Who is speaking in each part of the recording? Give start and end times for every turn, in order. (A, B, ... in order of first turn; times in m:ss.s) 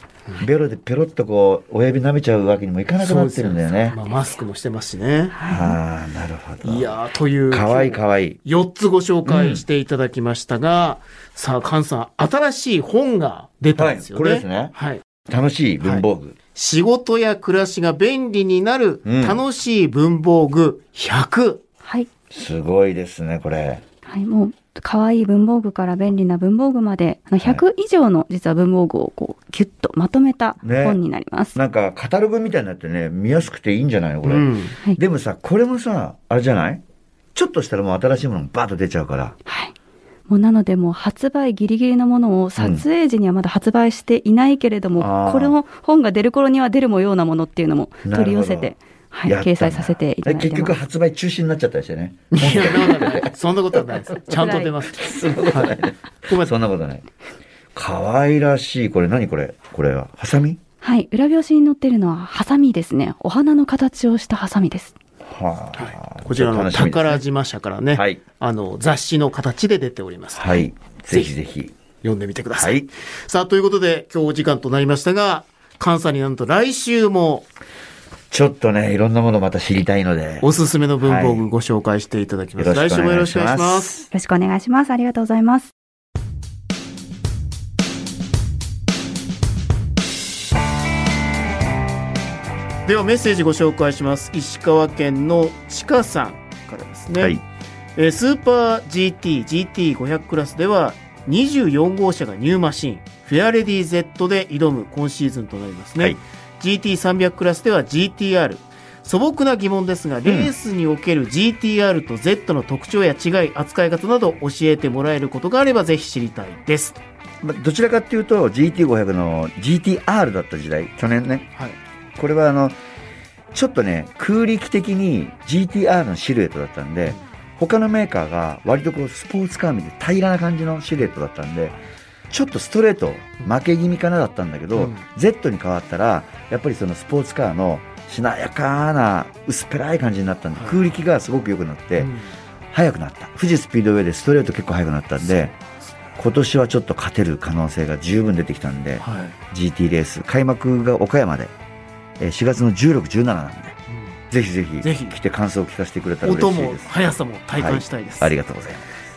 0:00.4-0:04.0 A
0:03.0-0:05.6 B
0:05.3-0:05.8 C
0:05.5-0:07.0 A
0:06.6-0:15.0 B
0:07.5-0:08.4 A
0:09.3-0:09.6 A
0:13.8-0:14.7 A
0:15.3-0:16.4 A
0:15.8-0:21.6 B
0:19.1-0:19.4 A
0:22.3-0:23.8 A
0:24.1-0:31.6 C
0:30.6-0:31.0 A
0:31.6-0:36.8 A
0:34.2-0:34.8 B
0:37.4-0:39.4 A
0:39.5-0:39.7 C
0:40.3-0:50.8 C
0:42.6-0:42.8 A
0:45.0-0:45.6 A
0:48.0-0:48.7 A
0:49.3-0:54.4 A
0:52.3-0:56.5 B
0:54.2-0:54.7 C
0:55.0-0:57.1 A
0:57.7-1:00.6 A
1:00.8-1:05.0 C
1:05.3-1:07.2 A
1:05.8-1:11.3 B
1:07.9-1:08.2 A
1:10.4-1:11.8 A
1:12.0-1:17.4 B
1:12.5-1:12.9 A
1:18.3-1:20.5 A
1:20.4-1:24.0 B
1:21.0-1:21.5 A
1:22.6-1:24.1 A
1:24.1-1:25.7 C
1:32.9-1:37.4 B
1:37.1-1:37.4 A
1:38.0-1:57.0 B
1:50.3-1:50.5 A
1:57.4-2:01.5 A
2:02.2-2:02.8 A
2:03.5-2:11.8 A
2:12.3-2:22.1 A
2:14.8-2:15.0 B
2:20.6-2:20.8 B
2:22.0-2:22.4 B
2:22.7-2:25.6 A
2:26.2-2:31.5 A
2:29.0-2:29.4 B
2:32.2-2:33.8 A
2:33.9-2:34.2 B
2:34.3-2:38.9 A
2:34.8-2:35.2 B
2:36.2-2:38.4 B